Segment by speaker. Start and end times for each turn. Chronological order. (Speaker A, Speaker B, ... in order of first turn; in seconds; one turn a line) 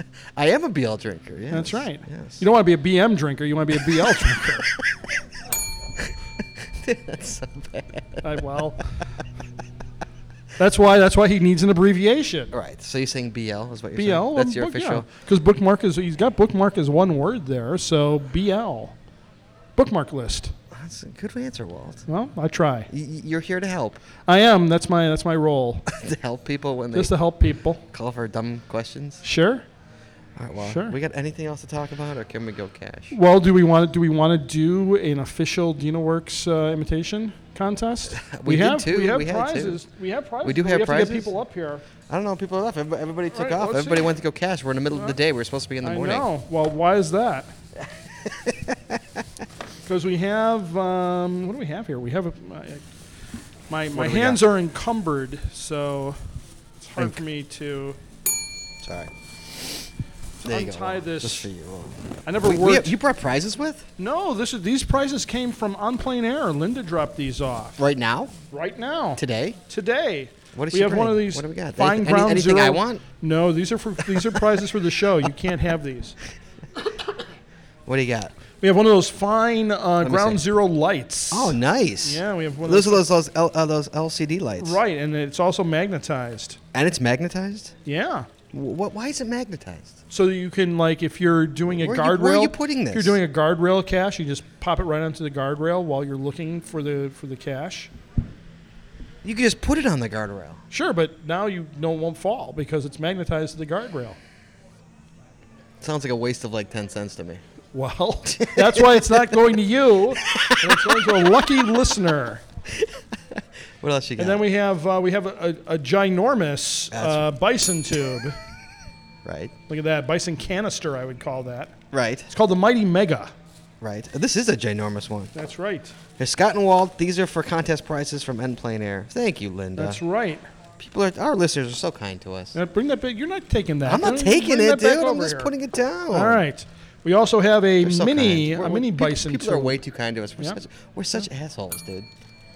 Speaker A: 0.3-2.4
Speaker B: 1.5-4.7
Speaker A: 6.8-8.2
Speaker B: 8.2-8.8
Speaker B: 10.6-12.5
Speaker A: 12.5-15.1
Speaker B: 13.9-18.9
Speaker B: 19.8-20.5
Speaker A: 20.7-22.0
Speaker B: 22.1-22.9
Speaker A: 22.9-24.0
Speaker B: 24.3-25.9
Speaker A: 25.9-27.1
Speaker B: 26.9-27.8
Speaker A: 27.9-29.2
Speaker B: 29.2-29.6
Speaker A: 30.4-33.1
Speaker B: 30.6-30.9
Speaker B: 33.1-41.8
Speaker A: 38.1-39.8
Speaker A: 40.4-41.3
Speaker A: 42.1-46.3
Speaker B: 43.3-44.1
Speaker B: 45.8-47.5
Speaker A: 48.2-49.0
Speaker B: 49.9-52.8
Speaker B: 53.7-56.2
Speaker A: 53.9-54.4
Speaker B: 56.8-58.0
Speaker A: 58.8-59.8
Speaker B: 60.4-61.5
Speaker A: 60.4-63.9
Speaker B: 62.2-62.9
Speaker B: 64.0-67.8
Speaker A: 67.8-68.3
Speaker B: 68.5-76.2
Speaker A: 69.2-69.6
Speaker A: 70.5-73.0
Speaker A: 77.9-78.3
Speaker B: 78.6-83.0
Speaker A: 80.0-80.4
Speaker A: 81.3-84.8
Speaker B: 84.6-86.6
Speaker A: 86.7-87.7
Speaker B: 87.9-88.3
Speaker A: 88.5-89.9
Speaker B: 90.1-97.9
Speaker A: 91.7-93.2
Speaker A: 99.2-100.6
Speaker B: 100.7-104.2
Speaker A: 105.8-107.4
Speaker B: 107.7-112.4
Speaker A: 108.2-109.0
Speaker A: 110.3-111.1
Speaker A: 113.8-114.5
Speaker B: 114.2-118.4
Speaker A: 116.9-117.2
Speaker A: 119.2-119.5
Speaker B: 119.7-121.7
Speaker A: 121.9-122.3
Speaker B: 122.3-123.3
Speaker A: 123.8-125.3
Speaker B: 125.3-125.9
Speaker A: 126.2-130.0
Speaker B: 129.8-130.4
Speaker A: 130.8-132.5
Speaker B: 132.5-135.5
Speaker A: 133.8-136.4
Speaker B: 136.1-139.8
Speaker A: 137.8-142.1